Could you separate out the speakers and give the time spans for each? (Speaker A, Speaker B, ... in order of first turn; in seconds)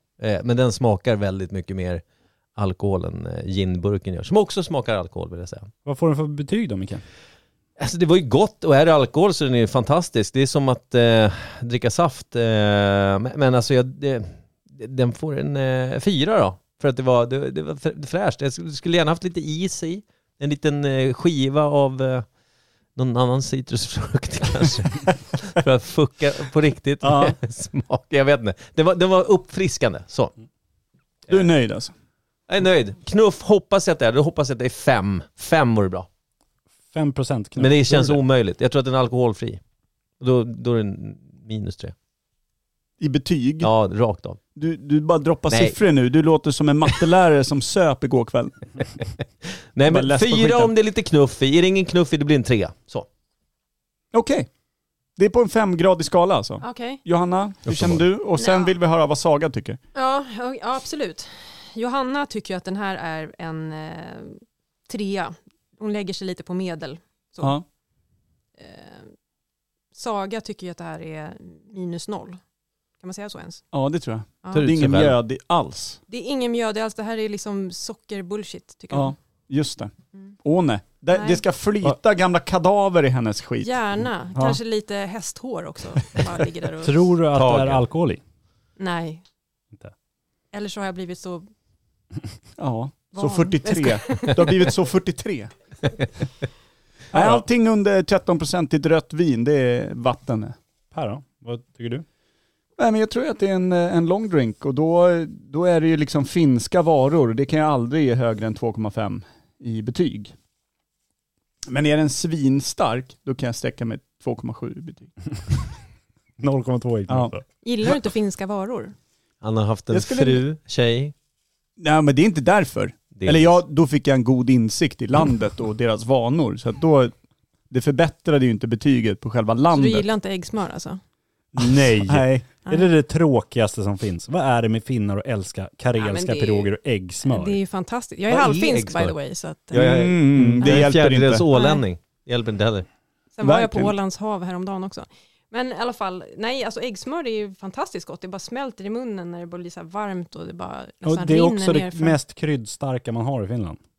Speaker A: 0.2-2.0, 2.6-5.7, 7.8-22.3, 23.0-30.3, 32.5-36.1, 37.6-39.6, 40.2-41.9, 43.6-44.4, 45.5-45.8, 49.7-53.1, 57.7-58.0, 74.5-75.2, 87.3-87.9, 119.4-121.1, 123.2-123.6, 138.3-139.2, 139.7-142.9
Speaker B: 5.8-7.0, 36.9-38.2, 86.8-88.2, 97.2-97.4, 100.9-102.1, 116.4-117.4, 131.6-137.6, 151.0-153.8
Speaker C: 27.0-27.4, 31.3-31.9, 43.0-43.7, 44.6-48.7, 49.9-50.7, 54.1-54.5, 55.2-59.8, 73.7-76.0, 78.9-79.9, 80.4-83.8, 92.6-95.5, 97.1-100.5, 102.8-110.3, 111.7-115.1, 117.1-117.3, 119.9-120.4, 121.8-127.1, 127.7-130.1, 131.6-132.5, 139.7-141.5, 143.4-143.9
Speaker D: 56.6-57.0, 58.4-58.8, 60.0-67.6, 68.6-69.1, 69.9-72.4, 73.0-73.6, 76.1-79.2, 81.1-81.4, 83.6-87.1, 88.8-89.2, 90.5-91.5, 93.1-94.6, 117.6-119.0, 129.7-131.0, 136.0-140.0, 141.5-141.8, 143.4-152.2